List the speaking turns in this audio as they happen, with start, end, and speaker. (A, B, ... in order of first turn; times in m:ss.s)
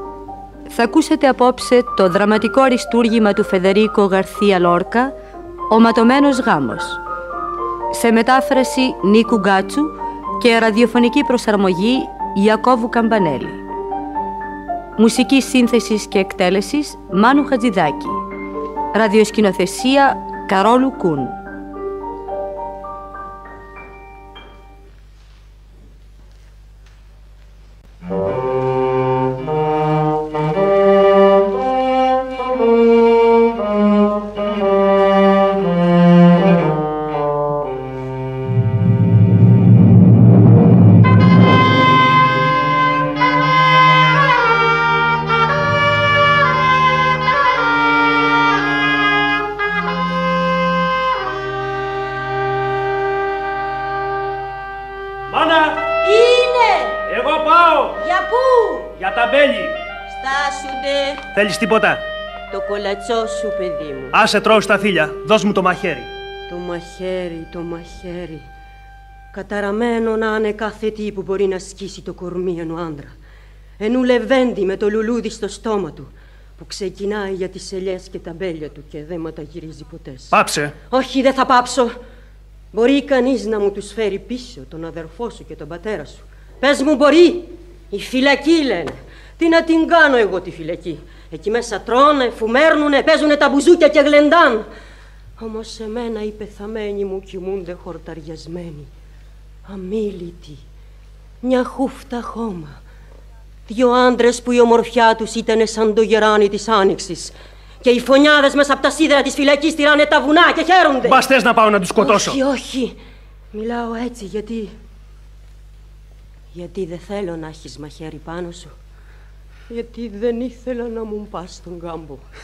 0:00.7-0:05.1 A
0:05.7-0:07.0 A
0:07.9-0:13.6 A
0:15.0-0:18.2 A
0:18.9-0:21.4 A
0:55.3-0:55.8 B
0:56.0-0:57.0 C
0:57.1-0:58.0 B
0:58.0-0:58.9 C
0:59.0-0:59.8 B
1:00.1-1:01.2 C
1:01.3-1:02.0 B
1:02.5-1:04.2 C
1:04.1-1:06.1 B
1:06.5-1:08.4 C
1:09.3-1:13.2 C
1:13.8-1:20.4 C
1:20.3-1:20.7 B
1:20.9-1:21.9 C
1:22.7-1:34.7 C
1:35.4-1:38.9 C
1:39.7-1:40.6 C
1:41.4-1:42.8 C
1:43.7-1:51.2 C
1:51.0-1:52.4 B
1:52.0-1:53.0 C
1:53.5-1:54.7 C
1:56.5-1:58.7 C
1:59.7-2:02.2 C